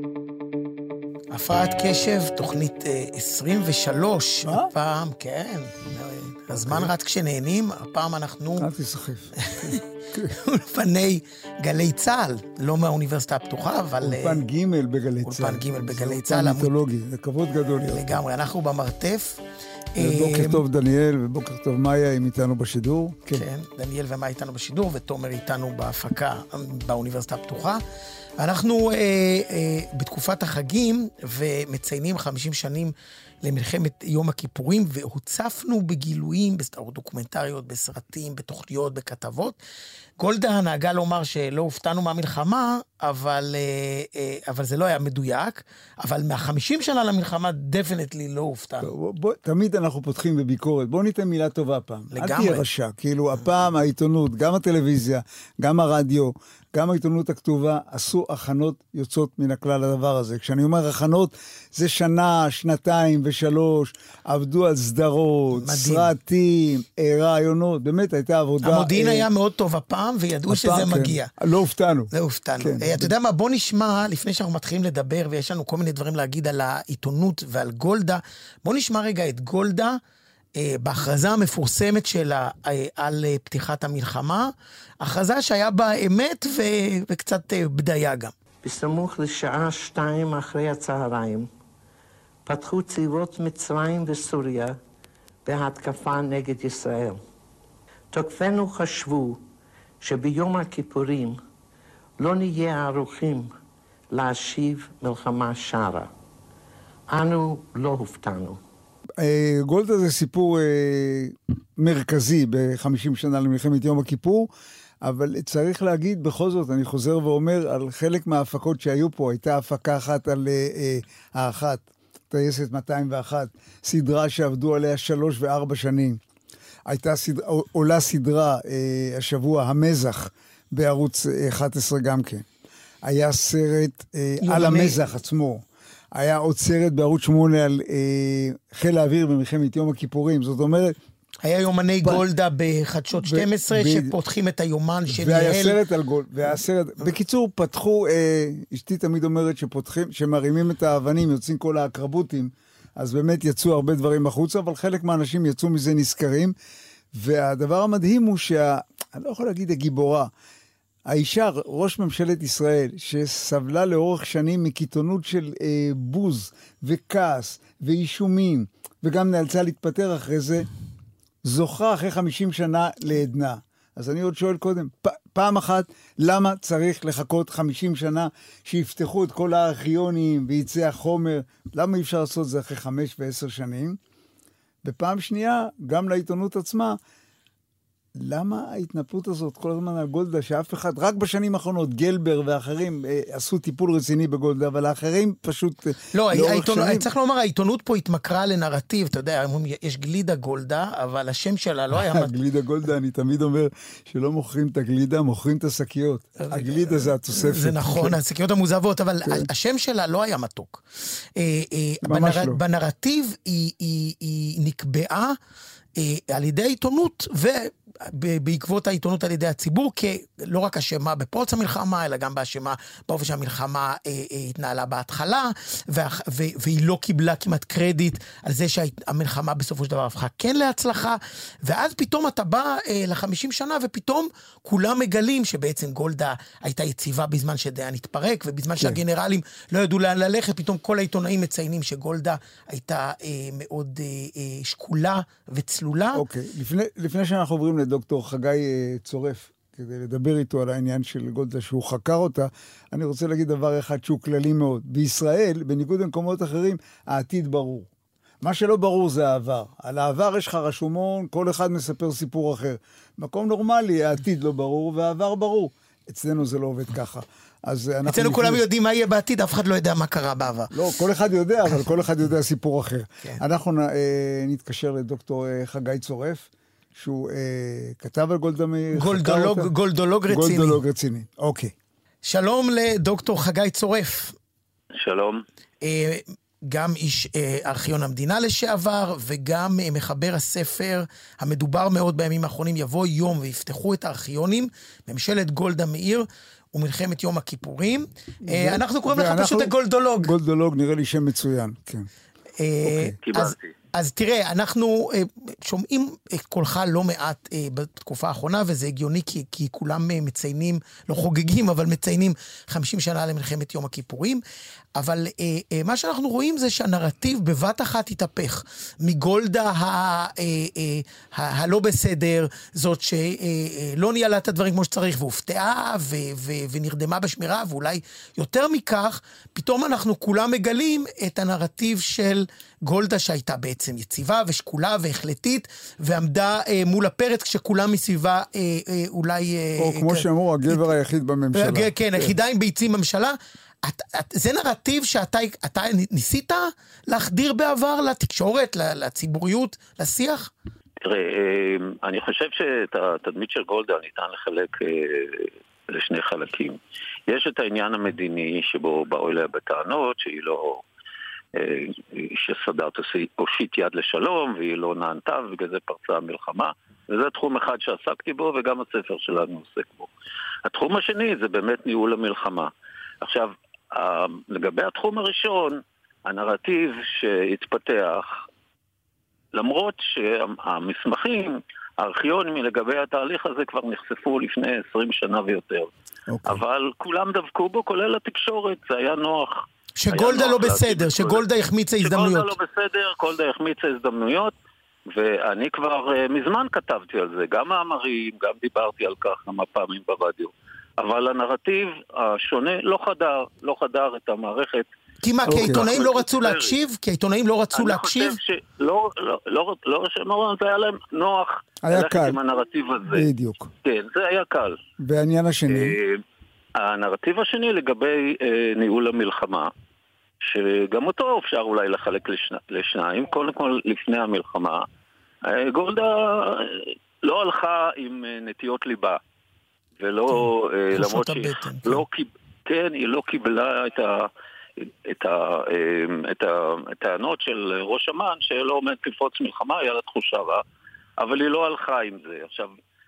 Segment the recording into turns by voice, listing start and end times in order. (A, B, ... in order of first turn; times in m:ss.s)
0:01.3-0:08.7 A
0:06.5-0:06.9 B
0:08.6-0:10.3 B
0:09.4-0:14.4 A
0:14.0-0:18.0 B
0:15.2-0:16.7 A
0:17.9-0:19.4 A
0:20.0-0:20.6 A
0:20.0-0:23.4 B
0:23.3-0:27.8 A
0:28.4-0:39.6 A
0:40.2-0:48.9 A
0:48.8-1:09.2 B
0:52.1-0:52.6 A
1:05.6-1:06.1 A
1:08.6-1:11.3 A
1:10.5-1:13.1 B
1:12.1-1:20.0 A
1:20.6-1:28.3 A
1:28.6-1:31.5 C
1:32.4-1:34.8 C
1:35.4-1:37.2 C
1:38.1-1:39.4 C
1:40.0-1:41.4 C
1:42.2-1:43.5 C
1:44.1-1:46.1 C
1:47.1-1:48.6 C
1:49.2-1:54.5 B
1:55.0-2:06.2 B
2:06.9-2:12.4 B
2:13.0-2:21.0 B
2:14.4-2:15.0 A
2:21.4-2:25.8 A
2:23.2-2:24.1 B
2:25.1-2:36.5 B
2:37.1-2:40.3 B
2:41.1-2:50.7 B
2:51.4-3:04.0 B
3:04.8-3:07.0 B
3:08.1-3:17.1 B
3:16.1-3:22.3 A
3:21.9-3:28.2 B
3:26.4-3:30.8 A
3:31.4-3:35.4 A
3:32.0-3:32.6 B
3:36.0-4:06.2 A
4:06.1-4:17.9 B
4:18.4-4:28.6 B
4:28.0-4:30.7 A
4:30.7-4:39.7 B
4:38.9-4:40.8 A
4:40.3-4:41.7 B
4:42.2-4:44.4 A
4:45.0-4:45.4 D
4:45.8-5:00.3 A
4:58.4-5:02.1 B
5:02.6-5:14.4 A
5:02.8-5:03.2 B
5:03.2-5:03.7 D
5:14.9-5:40.9 A
5:39.8-5:42.3 B
5:41.5-5:50.5 A
5:51.0-6:00.8 D
6:01.6-6:10.1 D
6:10.6-6:12.7 D
6:13.2-6:18.3 D
6:19.5-6:25.9 D
6:26.3-6:26.6 B
6:26.4-6:31.4 D
6:30.0-6:32.5 A
6:32.0-6:34.5 D
6:35.1-6:44.9 D
6:45.2-6:48.4 A
6:45.4-6:45.9 B
6:45.4-6:46.8 D
6:47.7-6:53.2 D
6:51.8-6:52.4 B
6:53.1-6:53.7 B
6:53.8-6:54.8 D
6:55.0-6:56.0 B
6:55.7-6:56.2 D
6:56.8-6:59.7 D
7:00.4-7:04.8 D
7:05.4-7:09.2 D
7:10.0-7:14.3 D
7:10.3-7:12.0 A
7:14.8-7:20.6 D
7:21.2-7:22.7 D